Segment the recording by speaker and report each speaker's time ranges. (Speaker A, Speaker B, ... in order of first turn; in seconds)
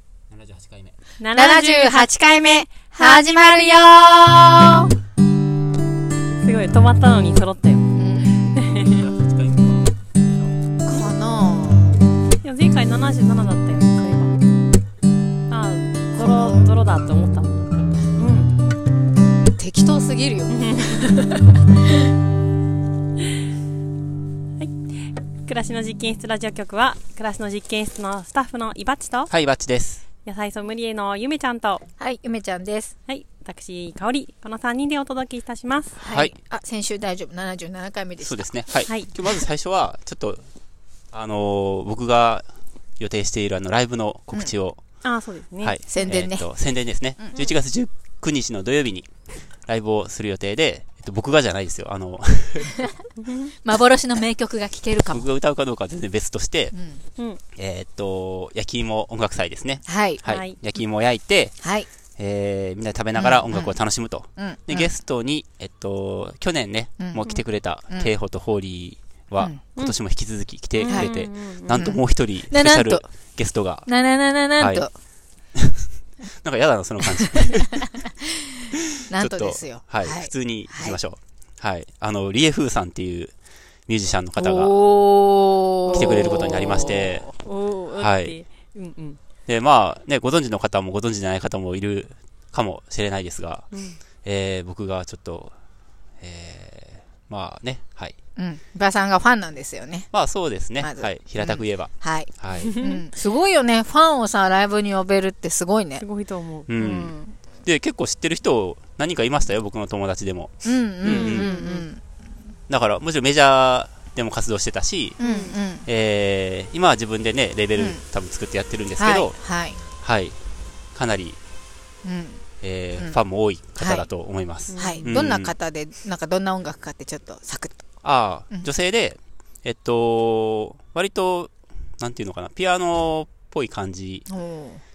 Speaker A: 0.3-1.0, 8.5-10.6, 29.3-30.0, 36.0-36.3, 38.2-40.5, 41.1-42.5, 43.0-44.8, 45.6-49.1, 49.7-52.8, 55.1-56.8, 57.5-61.6, 62.2-73.9, 74.6-74.9, 75.5-77.9, 79.0-83.3, 83.9-84.8, 85.9-87.3, 87.9-88.3, 89.5-93.7, 94.2-95.5, 96.2-98.2, 100.1-102.7, 106.7-111.5, 112.7-115.2, 115.8-119.4, 120.0-120.4, 120.9-121.4, 122.6-125.5, 128.0-134.3
Speaker B: 1.2-2.1, 6.4-7.9, 8.6-9.0, 12.4-14.4, 15.5-18.5, 20.5-21.2, 24.6-29.3, 30.2-31.8, 33.1-36.0, 38.9-39.1, 45.0-46.2, 53.2-53.5, 60.2-60.6, 70.8-71.9, 85.9-89.2, 93.7-94.0, 102.6-103.0, 106.0-106.7, 111.1-111.9, 115.2-115.6, 124.7-125.1
Speaker C: 1.4-4.9, 7.9-8.5, 10.8-12.0, 16.1-16.7, 19.6-21.4, 32.0-32.9, 36.0-38.6, 45.9-46.5, 47.2-47.5, 53.6-55.3, 56.7-57.0, 59.9-60.2, 61.6-61.9, 63.2-63.8, 64.3-65.0, 67.0-67.3, 69.4-69.7, 71.7-73.1, 73.9-74.9, 77.1-78.1, 79.1-81.0, 84.4-87.3, 98.4-100.1, 100.8-106.0, 106.8-107.4, 110.6-112.0, 115.2-115.9, 117.8-118.0, 119.0-119.8, 122.0-122.4, 123.8-124.1, 124.8-127.8, 134.3-134.8